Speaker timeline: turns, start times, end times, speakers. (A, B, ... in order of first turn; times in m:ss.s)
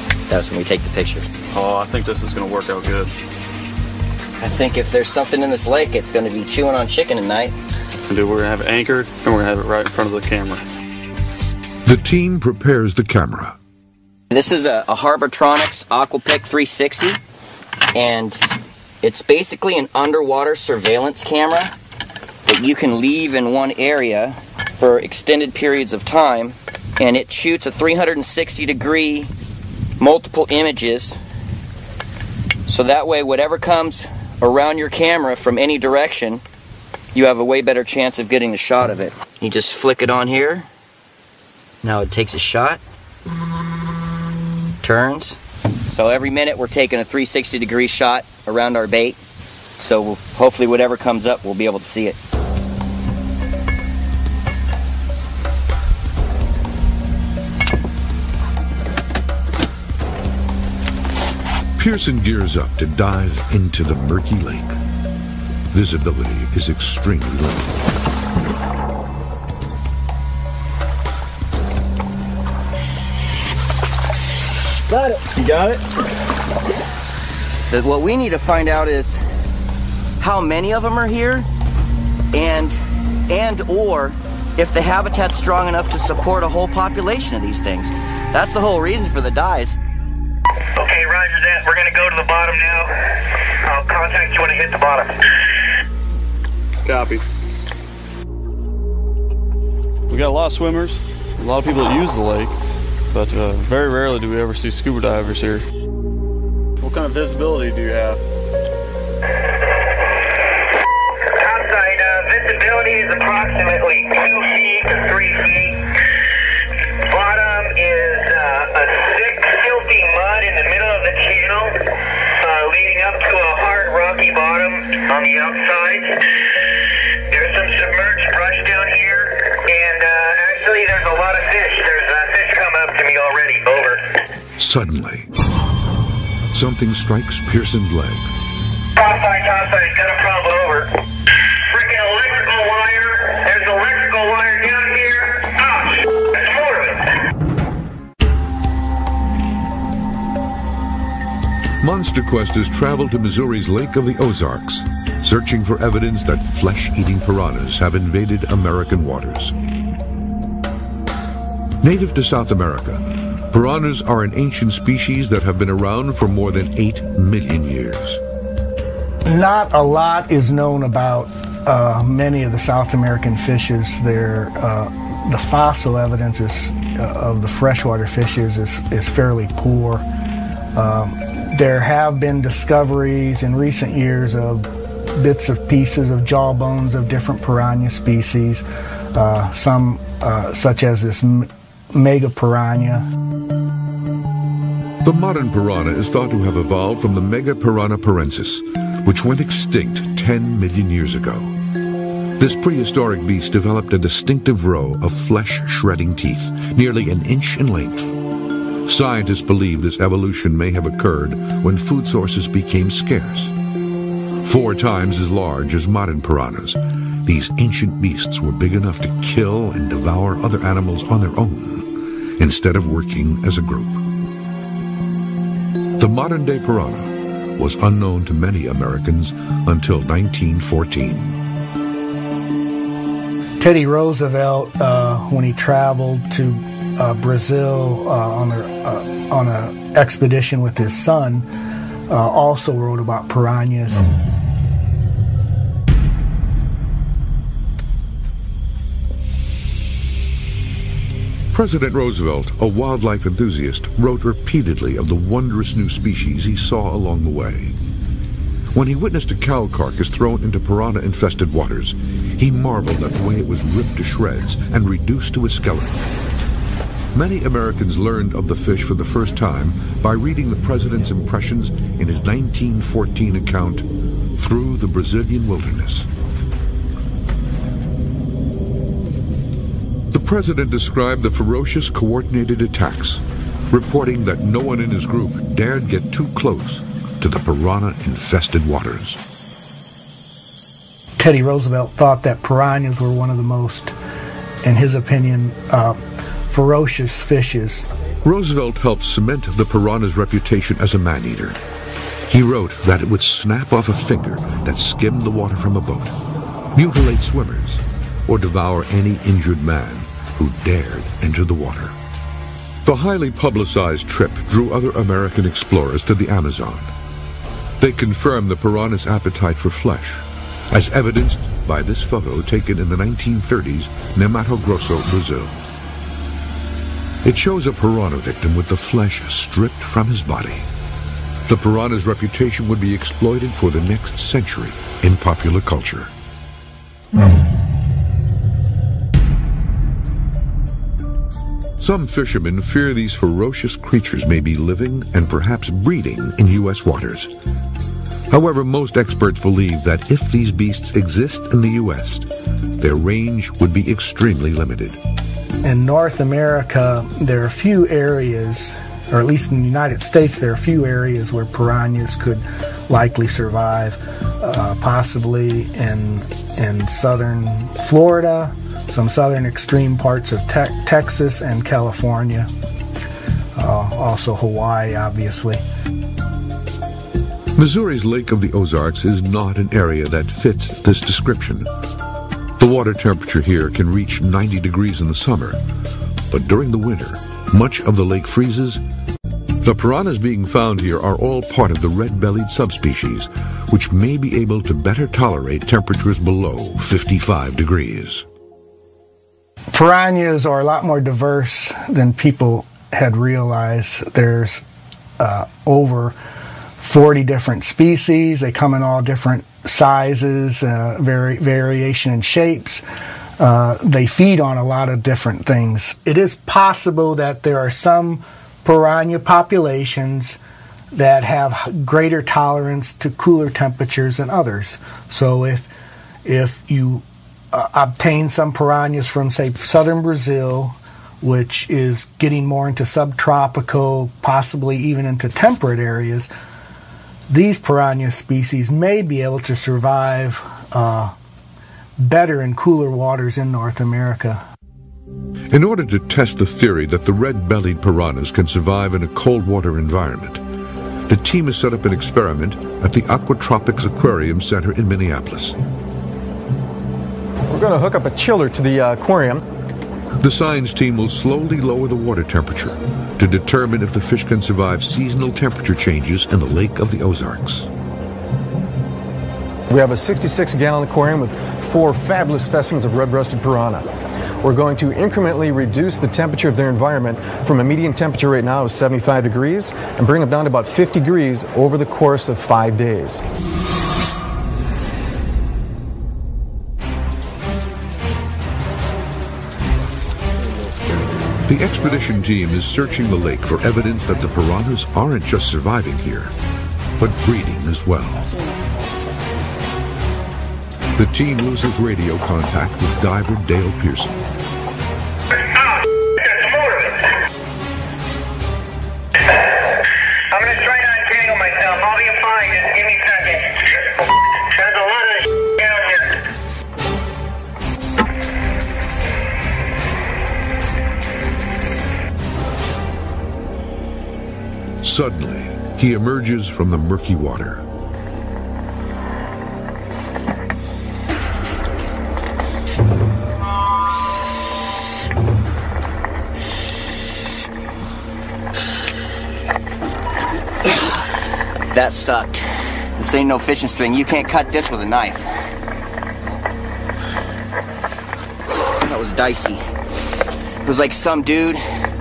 0:00.3-0:01.3 A
0:01.5-0:03.1 B
0:04.4-0:07.5 A
0:08.1-0:10.6 B
0:11.8-0:13.6 C
0:14.3-0:17.2 A
0:17.9-0:18.4 A
0:19.0-0:21.7 A
0:22.4-0:29.3 A
0:30.0-0:31.2 A
0:32.7-0:36.4 A
0:37.1-0:40.7 A
0:41.8-0:42.8 A
0:44.8-0:45.4 A
0:45.9-0:49.2 A
0:49.8-0:52.2 A
1:01.8-1:04.8 C
1:05.7-1:07.8 C
1:15.0-1:15.8 D
1:17.7-1:19.2 A
1:20.2-1:21.5 A
1:22.3-1:22.8 A
1:23.3-1:29.8 A
1:30.8-1:35.2 D
1:36.8-1:37.2 B
1:40.1-1:42.5 B
1:43.1-1:45.6 B
1:46.8-1:48.2 B
1:51.3-1:55.9 D
1:57.1-2:06.2 D
2:07.3-2:14.2 D
2:14.6-2:15.3 C
2:16.5-2:18.3 C
2:19.0-2:21.0 D
2:21.6-2:27.2 D
2:31.8-2:39.5 C
2:41.8-2:48.2 C
2:49.2-3:00.0 E
3:00.7-3:13.0 E
3:15.0-3:21.5 C
3:22.4-3:28.1 C
3:28.8-3:33.5 C
3:34.4-3:44.0 C
3:46.0-3:51.4 C
3:53.6-4:01.5 E
4:02.1-4:04.0 E
4:11.5-4:17.8 C
4:18.7-4:26.0 C
4:27.1-4:36.1 C
4:40.1-4:49.2 C
4:51.2-4:53.9 E
4:54.6-4:57.8 E
4:58.2-5:01.6 C
5:02.3-5:06.1 C
5:06.7-5:12.0 C
5:12.8-5:16.9 C
5:17.8-5:25.6 C
5:27.2-5:30.7 C
5:31.5-5:36.1 C
5:41.8-5:47.3 C
5:48.3-5:55.0 C
5:55.6-6:12.5 E
6:13.6-6:15.6 E
6:17.6-6:21.7 C
6:22.6-6:25.6 C
6:26.3-6:28.8 C
6:29.6-6:38.2 C
6:39.7-6:44.6 E
6:45.2-6:46.2 E
6:46.8-6:52.8 E
6:53.4-7:00.4 E
7:00.9-7:05.7 E
7:06.2-7:16.3 E
7:17.3-7:21.1 E
7:22.0-7:24.4 E
7:25.5-7:30.4 C
7:31.1-7:35.6 C
7:37.5-7:39.4 F
7:40.2-7:47.7 C
7:49.7-7:53.9 F
7:54.4-8:03.2 F
8:11.4-8:16.3 C
8:17.0-8:18.3 C
8:21.0-8:24.1 C
8:25.5-8:27.2 D
8:30.3-8:36.2 D
8:44.8-8:47.6 C
9:01.7-9:02.5 A
9:03.0-9:05.3 A
9:08.5-9:09.6 A
9:10.6-9:11.6 A